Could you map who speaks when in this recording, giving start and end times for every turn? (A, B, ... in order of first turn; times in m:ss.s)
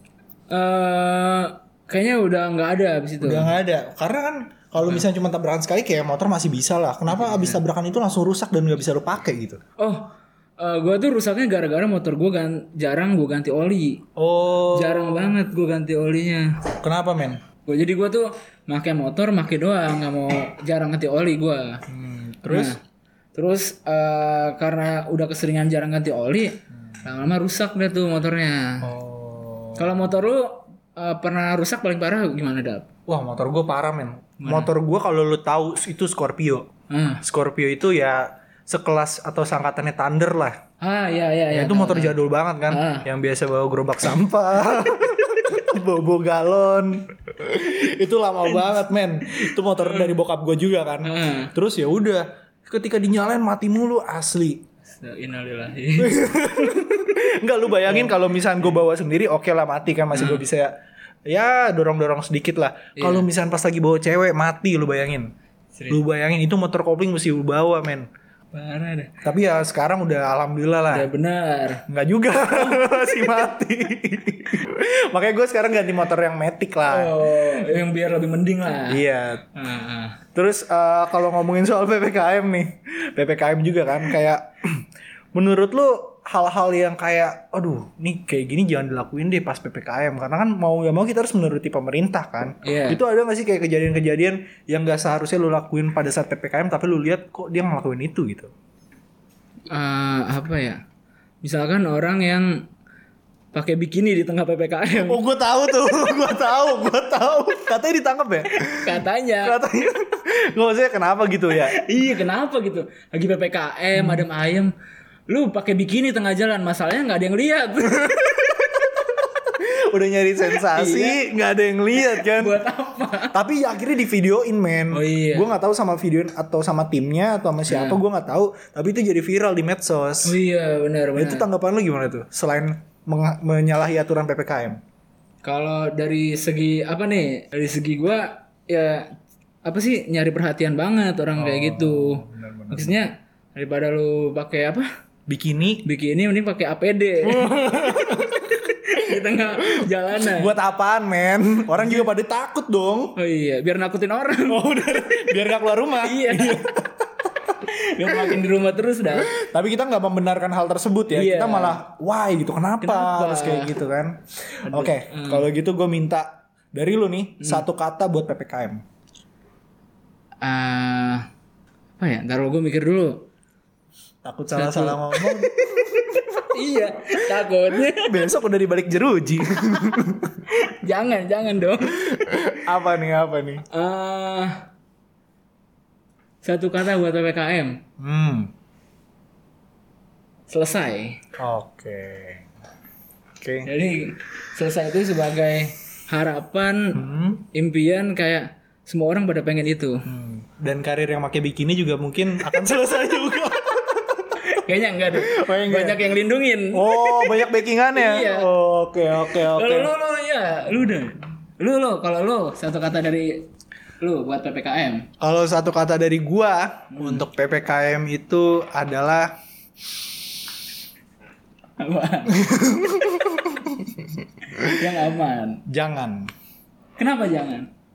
0:00.5-0:03.5 A
0:03.2-0:09.6 B
0:04.8-0:05.0 A
0:07.1-0:07.6 A
0:09.8-0:14.0 A
0:14.2-0:15.1 B
0:14.7-0:16.5 A
0:16.8-0:17.4 B
0:17.6-0:21.8 A
0:21.9-0:22.8 B
0:22.5-0:22.8 A
0:23.3-0:28.9 A
0:28.8-0:30.1 B
0:29.8-0:32.9 A
0:33.1-0:36.7 B
0:34.4-0:34.7 A
0:36.9-0:37.2 A
0:37.2-0:40.6 B
0:40.8-0:43.1 A
0:41.5-0:54.6 B
0:49.3-0:50.2 A
0:51.0-0:51.5 A
0:54.9-0:56.2 A
0:56.0-1:00.7 B
1:00.1-1:00.4 A
1:01.3-1:05.3 B
1:03.0-1:03.3 A
1:05.7-1:06.0 A
1:05.9-1:08.1 B
1:08.5-1:09.1 A
1:09.2-1:11.1 B
1:10.9-1:11.8 A
1:11.9-1:17.2 B
1:12.5-1:12.8 A
1:16.9-1:19.0 A
1:18.9-1:19.4 B
1:19.5-1:20.2 A
1:20.3-1:24.7 B
1:25.3-1:38.5 B
1:32.6-1:33.0 A
1:39.7-1:40.8 A
1:41.4-1:42.6 A
1:43.5-1:45.2 A
1:45.0-1:51.8 B
1:48.7-1:49.6 A
1:51.5-1:54.7 A
1:54.0-1:54.3 B
1:55.3-1:58.6 A
1:59.5-2:02.6 B
2:00.5-2:01.2 A
2:02.0-2:03.4 A
2:03.3-2:10.4 B
2:04.9-2:05.5 A
2:07.7-2:08.0 A
2:10.2-2:11.5 A
2:11.2-2:14.8 B
2:15.4-2:19.1 A
2:19.6-2:24.8 A
2:21.4-2:23.0 B
2:25.3-2:25.8 B
2:25.8-2:30.5 A
2:27.2-2:28.5 B
2:29.3-2:33.1 B
2:31.8-2:32.1 A
2:33.2-2:34.6 A
2:34.4-2:36.9 B
2:36.0-2:36.6 A
2:37.6-2:39.3 A
2:38.0-2:38.4 B
2:39.1-2:44.2 B
2:41.1-2:41.8 A
2:42.8-2:43.7 A
2:44.7-2:45.5 A
2:44.7-2:48.8 B
2:47.4-2:47.6 A
2:50.4-2:51.2 A
2:52.0-2:53.2 A
2:54.2-2:56.4 B
2:54.5-2:55.4 A
2:56.4-2:58.2 A
2:57.7-3:00.4 B
3:00.5-3:02.1 A
3:02.0-3:03.6 B
3:03.7-3:04.6 A
3:06.4-3:07.8 A
3:08.0-3:08.5 B
3:10.5-3:11.2 A
3:11.4-3:12.5 B
3:13.4-3:13.7 B
3:13.6-3:17.0 A
3:16.9-3:17.4 B
3:17.5-3:20.0 A
3:20.0-3:24.5 B
3:24.4-3:28.5 A
3:25.1-3:26.1 B
3:26.7-3:29.9 B
3:29.3-3:33.5 A
3:34.0-3:35.1 A
3:35.2-3:39.3 B
3:36.9-3:37.2 A
3:41.8-3:42.5 A
3:42.3-3:43.7 B
3:44.5-3:45.6 A
3:45.7-3:46.3 B
3:47.0-3:47.7 A